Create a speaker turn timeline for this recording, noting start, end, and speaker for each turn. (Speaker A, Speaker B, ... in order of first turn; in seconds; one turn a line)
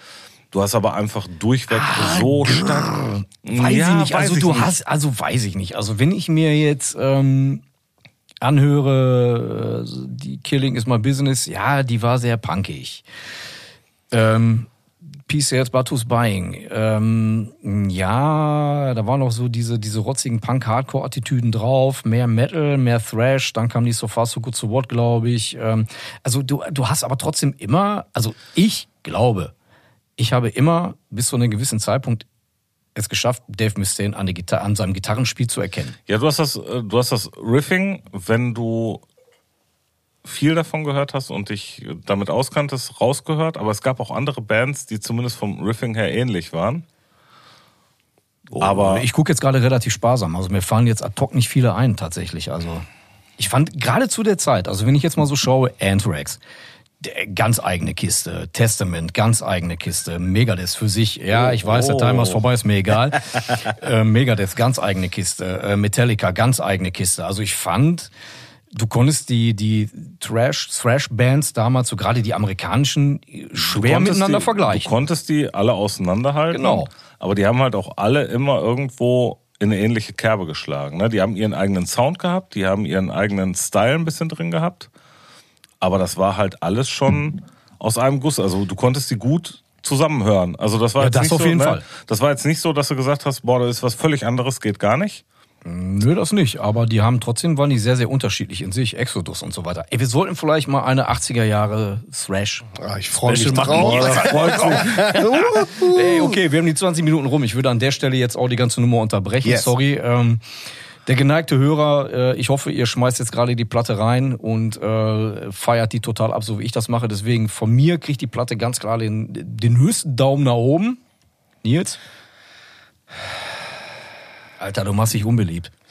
Speaker A: 0.5-4.8
Speaker B: 1.7-7.6
Speaker B: 8.4-13.1
Speaker B: 14.1-14.7
Speaker B: 15.3-29.5
Speaker B: 30.2-32.3
Speaker B: 33.0-36.0
Speaker A: 36.1-39.0
Speaker A: 40.2-46.9
Speaker B: 48.5-52.9
Speaker A: 48.6-49.1
Speaker B: 53.4-56.4
Speaker B: 57.0-68.1
Speaker A: 61.3-62.4
Speaker A: 63.1-63.6
Speaker B: 68.7-74.9
Speaker A: 73.6-84.9
Speaker B: 76.5-76.9
Speaker A: 85.8-95.2
Speaker B: 91.0-91.8
Speaker B: 95.7-102.7
Speaker C: 102.7-106.3
Speaker B: 103.3-110.4
Speaker A: 103.3-105.3
Speaker C: 109.4-109.8
Speaker B: 111.1-121.0
Speaker B: 121.6-122.0
Speaker B: 124.6-125.7